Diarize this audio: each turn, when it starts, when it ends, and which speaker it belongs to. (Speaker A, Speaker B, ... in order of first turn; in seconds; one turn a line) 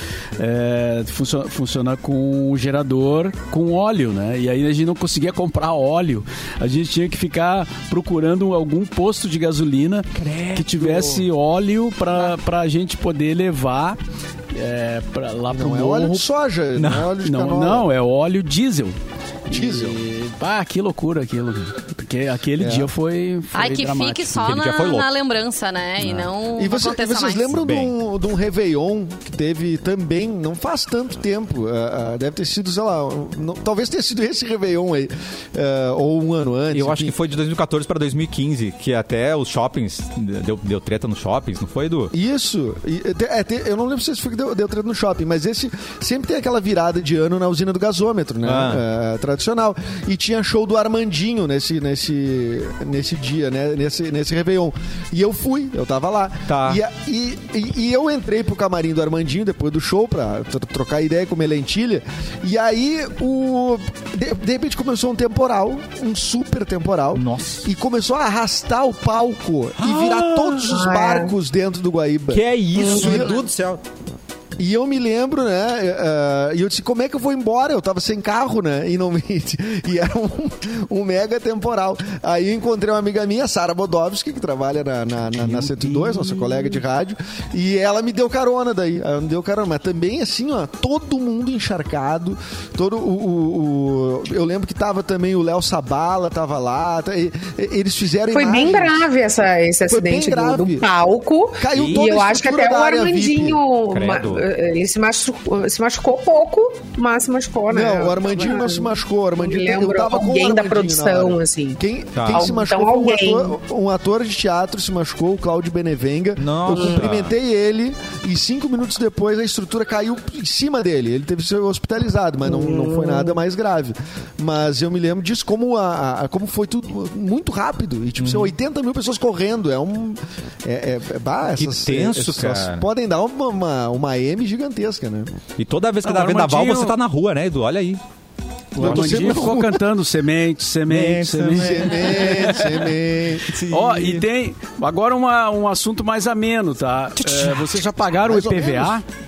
Speaker A: 0.3-14.0
Speaker B: 10.2-11.2
Speaker A: 14.5-16.2
Speaker C: 15.5-17.9
Speaker B: 16.8-17.1
Speaker A: 17.2-24.4
Speaker C: 19.5-20.0
Speaker C: 22.6-22.9
Speaker D: 23.5-27.6
Speaker B: 24.4-25.1
Speaker B: 26.0-26.3
Speaker C: 26.6-37.1
Speaker B: 27.5-27.9
Speaker B: 36.7-42.1
Speaker C: 42.1-73.4
Speaker B: 48.4-48.8
Speaker B: 56.5-56.8
Speaker B: 67.1-67.6
Speaker B: 69.8-70.7
Speaker E: 70.6-71.3
Speaker B: 72.3-73.8
Speaker E: 72.8-73.3
Speaker C: 74.6-99.0
Speaker A: 85.4-86.8
Speaker E: 98.3-113.6
Speaker C: 99.8-100.9
Speaker C: 101.6-103.6
Speaker B: 101.7-102.0
Speaker B: 103.9-104.5
Speaker C: 107.7-135.3
Speaker B: 112.1-112.5
Speaker B: 116.4-117.3
Speaker E: 116.8-117.0
Speaker E: 122.5-123.4
Speaker B: 128.2-128.5
Speaker B: 131.6-132.8
Speaker B: 135.6-138.0
Speaker A: 136.0-136.9
Speaker A: 138.7-142.9
Speaker B: 138.8-139.5
Speaker C: 138.8-139.8
Speaker B: 140.9-142.7
Speaker C: 141.5-143.5
Speaker B: 143.4-144.3
Speaker A: 143.7-149.0
Speaker C: 148.2-149.0